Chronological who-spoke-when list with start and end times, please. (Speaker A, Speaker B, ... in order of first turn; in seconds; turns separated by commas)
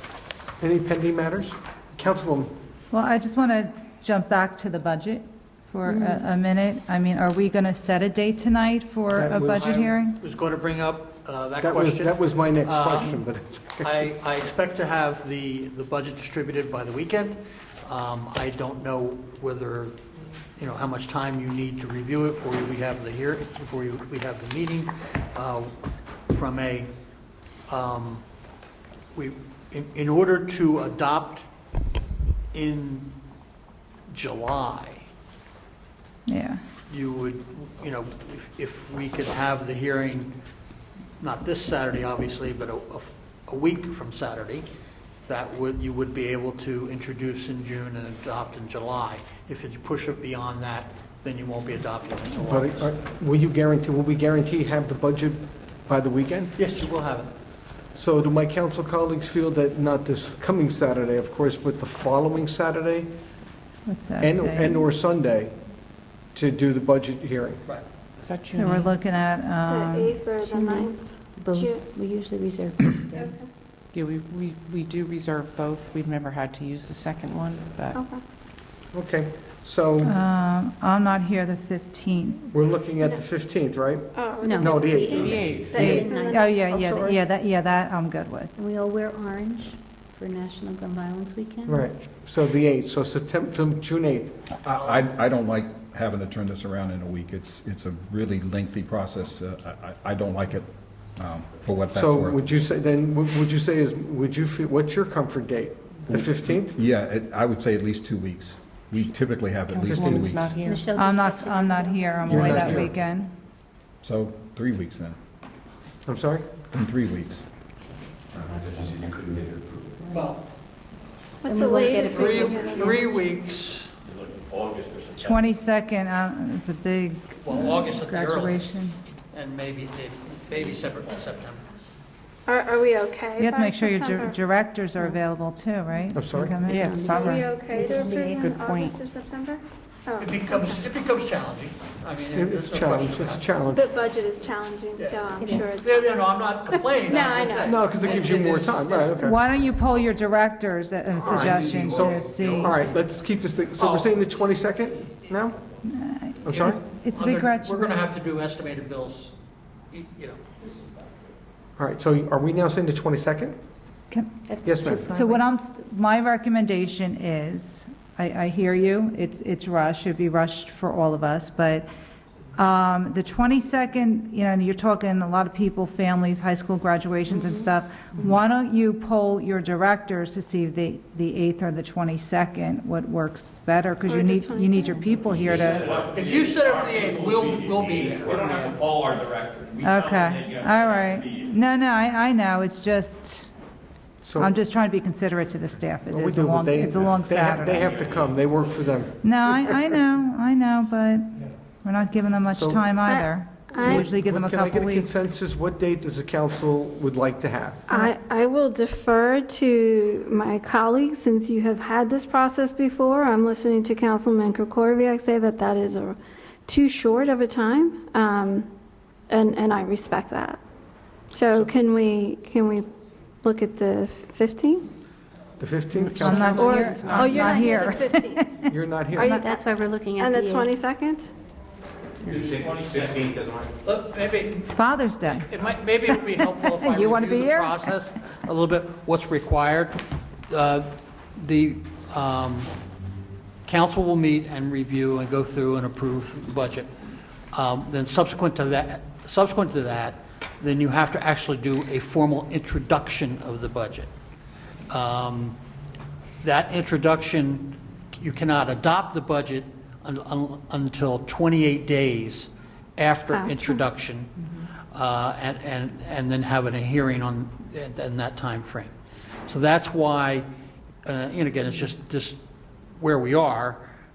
Speaker A: 0.6-2.5, Speaker B: 2.9-10.2, Speaker C: 5.9-6.2, Speaker A: 9.1-9.8, Speaker D: 9.6-13.2, Speaker A: 11.6-14.0, Speaker D: 13.8-20.0, Speaker D: 20.6-25.7, Speaker D: 26.3-26.9, Speaker D: 27.7-28.2, Speaker D: 29.1-31.5, Speaker D: 32.5-33.1, Speaker D: 34.1-35.0, Speaker B: 36.3-36.6, Speaker D: 36.9-40.3, Speaker D: 41.2-44.7, Speaker D: 45.3-53.0, Speaker A: 52.5-56.5, Speaker D: 56.6-57.3, Speaker A: 57.9-63.1, Speaker B: 63.9-64.8, Speaker A: 64.2-65.5, Speaker A: 66.3-67.6, Speaker E: 68.2-68.9, Speaker B: 68.5-70.3, Speaker F: 69.7-71.9, Speaker C: 70.4-73.4, Speaker F: 73.2-73.5, Speaker E: 73.9-78.0, Speaker F: 77.9-78.2, Speaker A: 78.9-80.2, Speaker B: 80.0-82.5, Speaker A: 82.5-87.2, Speaker F: 84.1-86.6, Speaker C: 84.4-86.6, Speaker E: 85.1-85.8, Speaker B: 85.8-88.5, Speaker C: 88.6-91.8, Speaker A: 91.7-94.4, Speaker G: 94.6-102.6, Speaker D: 94.7-95.1, Speaker A: 101.9-106.8, Speaker G: 106.1-110.7, Speaker E: 109.7-110.9, Speaker A: 109.9-110.3, Speaker C: 110.7-112.3, Speaker B: 110.9-113.3, Speaker A: 112.3-112.9, Speaker G: 112.3-112.8, Speaker G: 114.0-115.2, Speaker A: 116.1-116.5, Speaker G: 116.7-117.5, Speaker G: 118.4-119.8, Speaker C: 118.5-119.2, Speaker D: 120.1-120.4, Speaker F: 121.4-123.0, Speaker C: 121.5-123.1, Speaker D: 121.7-123.9, Speaker H: 124.1-125.4, Speaker B: 125.2-129.0, Speaker D: 127.4-128.7, Speaker D: 129.3-131.6, Speaker F: 132.5-134.4, Speaker B: 133.4-137.0, Speaker A: 136.2-136.6, Speaker E: 136.7-139.0, Speaker C: 136.8-138.4, Speaker F: 137.1-140.6, Speaker D: 140.2-143.5, Speaker A: 142.3-143.8, Speaker F: 143.7-147.9, Speaker D: 145.0-149.2, Speaker C: 145.4-145.7, Speaker A: 147.6-149.4, Speaker B: 149.2-152.9, Speaker A: 151.2-155.6, Speaker G: 151.8-152.2, Speaker D: 153.8-154.4, Speaker B: 155.9-158.0, Speaker A: 156.5-156.8, Speaker D: 156.5-159.3, Speaker D: 159.9-160.4, Speaker A: 161.8-163.6, Speaker C: 164.4-165.5, Speaker A: 164.7-165.2, Speaker B: 165.1-171.9, Speaker B: 172.6-186.0, Speaker F: 184.0-185.1, Speaker H: 185.3-191.5, Speaker D: 185.7-188.9, Speaker B: 189.8-193.5, Speaker A: 194.2-194.5, Speaker B: 194.4-198.0, Speaker A: 196.1-199.8, Speaker H: 197.1-198.9, Speaker B: 199.2-205.3, Speaker A: 202.5-202.9, Speaker F: 203.1-204.1, Speaker A: 203.8-207.8, Speaker F: 207.9-218.7, Speaker F: 219.3-220.6, Speaker F: 221.3-222.9, Speaker F: 223.4-224.9, Speaker A: 225.6-226.7, Speaker E: 226.0-227.7, Speaker B: 226.2-229.5, Speaker F: 226.4-228.4, Speaker A: 228.7-229.4, Speaker F: 229.2-229.6, Speaker C: 229.4-230.7, Speaker F: 230.2-231.3, Speaker D: 232.3-234.6, Speaker G: 232.3-233.6, Speaker H: 232.5-233.0, Speaker B: 234.6-235.6, Speaker D: 235.2-242.7, Speaker B: 236.1-237.9, Speaker D: 243.7-246.9, Speaker D: 247.5-254.1, Speaker D: 254.9-255.6, Speaker D: 256.4-264.3, Speaker F: 263.3-263.8, Speaker D: 264.9-268.9, Speaker D: 269.5-270.5, Speaker D: 271.1-272.4, Speaker D: 273.0-273.8